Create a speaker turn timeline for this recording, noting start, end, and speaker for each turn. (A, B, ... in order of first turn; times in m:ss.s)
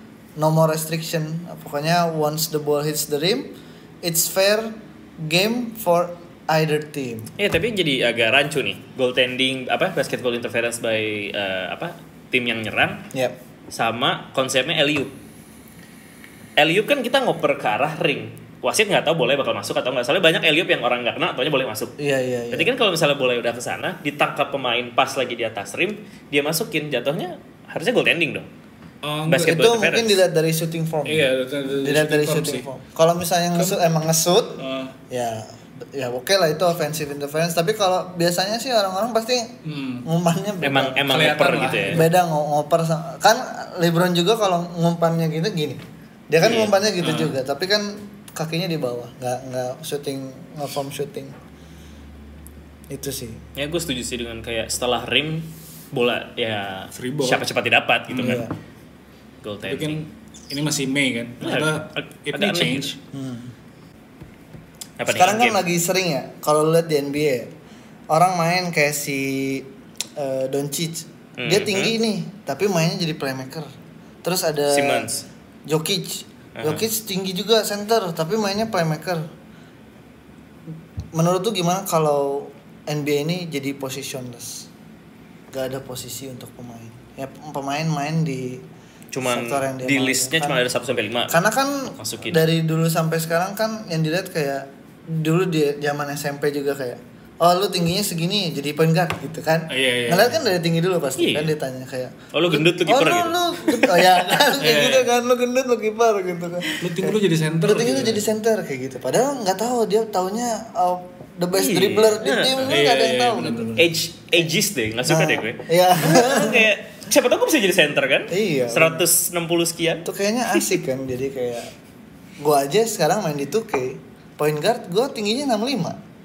0:00.4-0:07.3 A
0:07.4-0:13.0 B
0:13.7-0:15.1 B
0:16.6-0:22.0 B
0:22.0-0:22.7 A
0:22.5-0:28.5 B
0:29.0-0:29.6 C
0:29.3-0:30.2 B
0:29.4-0:39.5 A
0:31.0-0:32.7 C
0:33.6-0:33.8 C
0:34.6-0:35.0 C
0:39.6-0:40.1 C
0:40.0-0:41.1 A
0:40.6-0:42.0 B
0:41.1-0:42.1 C
0:41.9-0:51.4 A
0:46.4-0:46.8 B
0:47.0-0:47.4 C
0:52.9-0:53.4 A
0:53.6-0:58.5 B
0:56.9-0:57.4 C
0:58.1-0:58.5 C
0:58.2-0:58.5 A
0:59.4-1:00.0 B
0:59.6-1:03.0 C
1:01.4-1:02.9 B
1:03.1-1:03.5 A
1:05.0-1:05.6 B
1:05.1-1:07.5 A
1:08.1-1:13.7 A
1:11.4-1:12.0 B
1:14.2-1:15.1 A
1:14.7-1:15.3 B
1:15.7-1:19.3 A
1:16.6-1:16.8 B
1:21.1-1:24.7 A
1:25.5-1:28.6 A
1:29.1-1:31.4 B
1:29.2-1:30.6 A
1:31.3-1:53.7 A
1:32.0-1:32.5 B
1:39.7-1:40.4 C
1:41.2-1:41.5 B
1:42.3-1:43.7 B
1:44.6-1:45.1 C
1:46.8-1:48.3 C
1:51.5-1:52.8 B
1:52.6-1:53.9 C
1:53.8-2:00.6 B
1:55.1-1:56.7 A
1:58.3-1:59.1 A
2:00.0-2:01.7 A
2:02.4-2:06.0 A